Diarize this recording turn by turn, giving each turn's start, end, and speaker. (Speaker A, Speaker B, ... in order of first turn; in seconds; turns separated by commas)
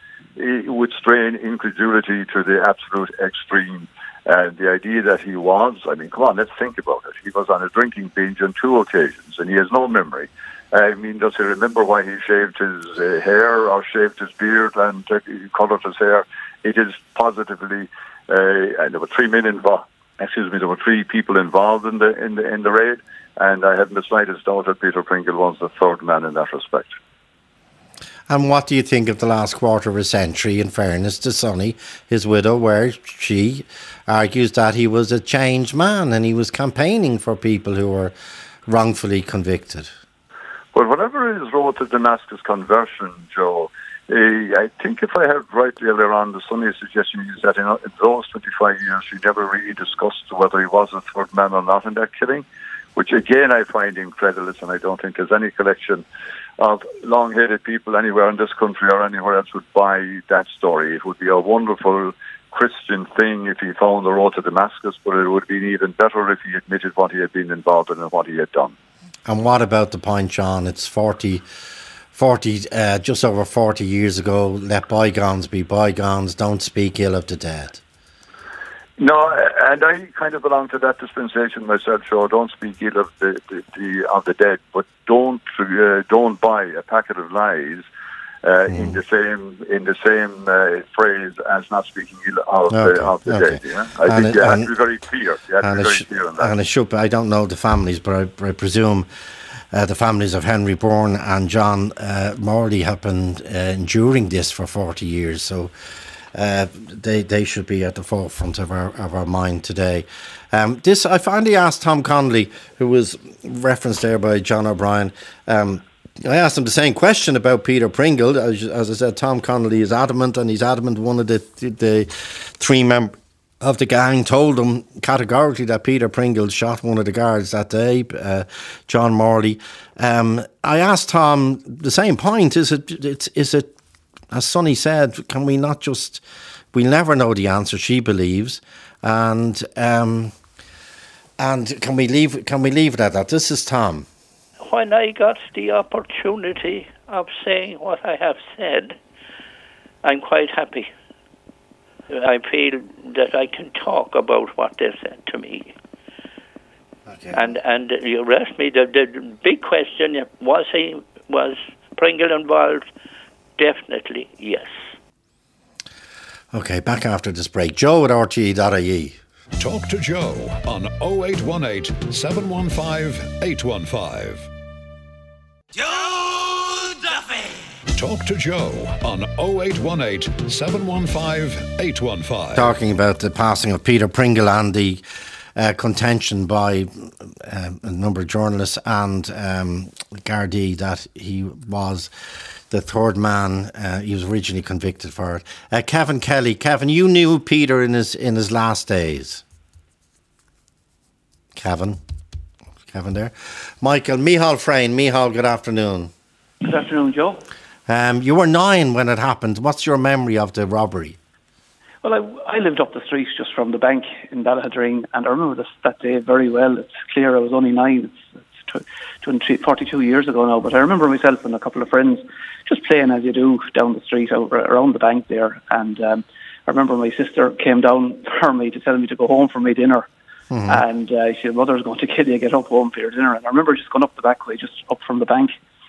Speaker A: 0.3-26.9, Speaker B: 28.3-38.1, Speaker B: 38.7-39.9, Speaker A: 40.7-52.4, Speaker A: 53.0-56.0, Speaker A: 56.6-68.7, Speaker B: 69.3-71.4, Speaker B: 72.1-77.8, Speaker A: 79.0-87.9, Speaker A: 88.4-96.6, Speaker B: 88.7-89.0, Speaker B: 92.7-94.7, Speaker B: 95.6-99.1, Speaker B: 99.7-105.7, Speaker B: 106.3-133.7, Speaker B: 134.3-136.2, Speaker B: 136.7-140.3, Speaker B: 141.4-144.1, Speaker C: 144.6-149.0, Speaker C: 150.0-150.9, Speaker C: 152.1-155.7, Speaker B: 157.1-157.4, Speaker C: 157.3-162.8, Speaker C: 163.6-164.8, Speaker B: 166.5-169.2, Speaker D: 169.6-174.5, Speaker E: 175.7-177.7, Speaker D: 177.9-182.7, Speaker B: 182.5-185.0, Speaker B: 185.6-192.1, Speaker B: 192.7-199.4, Speaker B: 201.6-202.0, Speaker B: 202.9-206.1, Speaker F: 206.6-207.4, Speaker B: 207.9-211.2, Speaker F: 212.0-230.1, Speaker B: 230.5-230.8, Speaker F: 230.7-235.6